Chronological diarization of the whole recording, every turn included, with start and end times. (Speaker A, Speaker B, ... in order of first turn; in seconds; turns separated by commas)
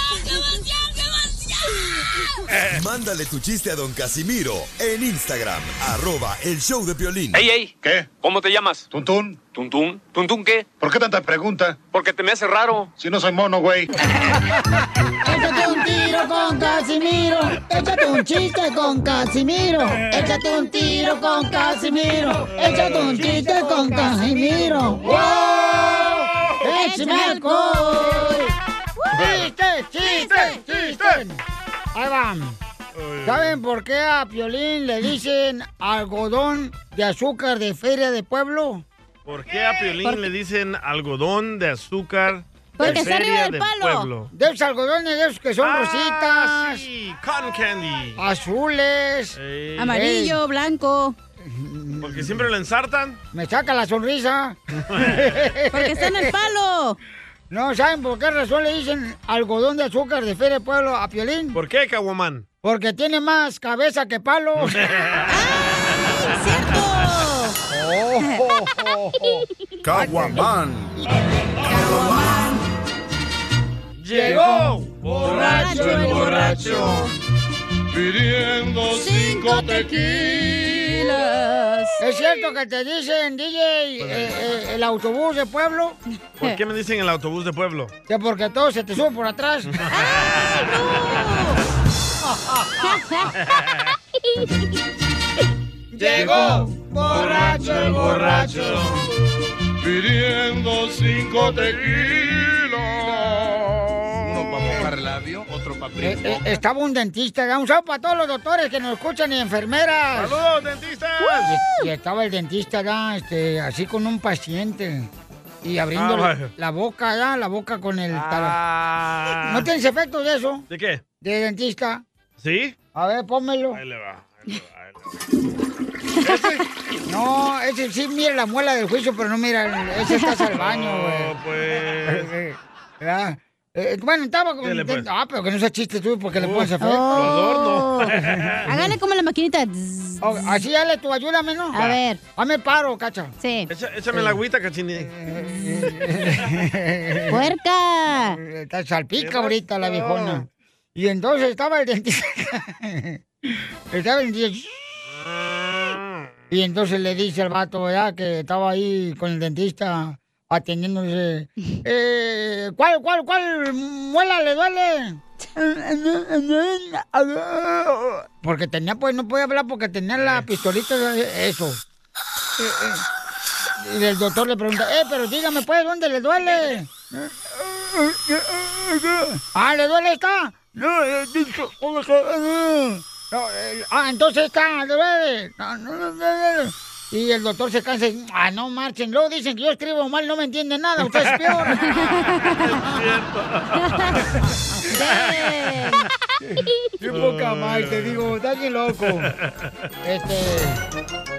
Speaker A: 2.7-7.5, Speaker B: 8.3-8.8, Speaker B: 9.6-10.6, Speaker B: 12.1-12.9, Speaker C: 15.2-28.5, Speaker D: 20.9-21.2, Speaker E: 22.5-24.5, Speaker D: 25.0-25.6, Speaker E: 26.1-26.5, Speaker D: 26.7-29.1, Speaker C: 29.1-31.4, Speaker E: 29.2-29.5, Speaker D: 30.1-30.5, Speaker E: 30.1-31.2, Speaker C: 31.9-32.6, Speaker E: 33.0-33.6, Speaker C: 33.2-38.9, Speaker E: 39.2-44.3, Speaker D: 40.0-40.2, Speaker D: 42.8-44.1, Speaker C: 42.8-43.1, Speaker C: 44.3-46.9, Speaker E: 45.6-48.2, Speaker C: 48.2-49.4, Speaker E: 49.4-50.0, Speaker D: 49.8-51.1, Speaker C: 49.9-50.4, Speaker C: 51.4-52.4, Speaker E: 52.0-53.2, Speaker C: 53.3-56.2, Speaker E: 54.9-55.2, Speaker D: 55.7-57.0, Speaker C: 57.5-61.6, Speaker E: 61.5-62.4, Speaker C: 62.6-64.8, Speaker E: 64.6-65.4, Speaker D: 65.3-67.6, Speaker C: 67.7-69.4, Speaker F: 69.9-70.4, Speaker C: 70.0-70.3, Speaker D: 71.8-72.4, Speaker E: 74.0-76.5, Speaker C: 74.1-74.8, Speaker D: 75.2-77.1, Speaker C: 75.4-76.2, Speaker F: 75.9-76.9, Speaker F: 77.9-80.9, Speaker D: 78.9-82.0, Speaker C: 82.0-86.0, Speaker E: 84.0-84.4, Speaker E: 86.4-87.9, Speaker C: 88.1-89.8, Speaker D: 89.9-91.6, Speaker E: 89.9-91.3, Speaker D: 92.8-93.3, Speaker C: 95.9-99.0, Speaker F: 96.3-96.5, Speaker F: 97.1-98.9, Speaker F: 99.8-106.2, Speaker C: 106.0-110.4, Speaker E: 110.1-111.5, Speaker C: 111.4-115.1, Speaker C: 115.6-118.6, Speaker E: 115.9-116.5, Speaker E: 118.1-119.7, Speaker C: 119.5-120.6, Speaker E: 120.7-121.0, Speaker C: 121.2-122.0, Speaker E: 122.4-122.7, Speaker C: 122.9-123.8, Speaker E: 123.7-125.0, Speaker E: 126.2-126.6, Speaker C: 127.1-131.3, Speaker D: 130.1-130.4, Speaker E: 130.5-132.3, Speaker C: 132.0-137.4, Speaker E: 134.6-135.1, Speaker E: 136.4-138.7, Speaker D: 136.8-138.1, Speaker C: 138.1-138.9, Speaker D: 138.7-140.2, Speaker C: 140.2-141.8, Speaker D: 141.7-142.2, Speaker C: 142.4-143.3, Speaker D: 143.4-143.7, Speaker E: 143.7-145.1, Speaker C: 144.1-144.4, Speaker C: 145.0-147.5, Speaker D: 147.3-148.4, Speaker C: 148.2-155.0, Speaker E: 149.2-150.4, Speaker E: 155.4-156.2, Speaker C: 156.5-171.8, Speaker E: 170.2-170.4, Speaker C: 172.6-173.0, Speaker C: 173.8-191.8, Speaker E: 191.2-192.0, Speaker D: 191.9-192.7, Speaker E: 192.6-194.2, Speaker D: 193.9-194.1, Speaker D: 194.9-196.1, Speaker E: 195.0-195.6, Speaker C: 196.4-199.3, Speaker E: 197.1-198.3, Speaker E: 199.0-199.7, Speaker C: 200.0-200.8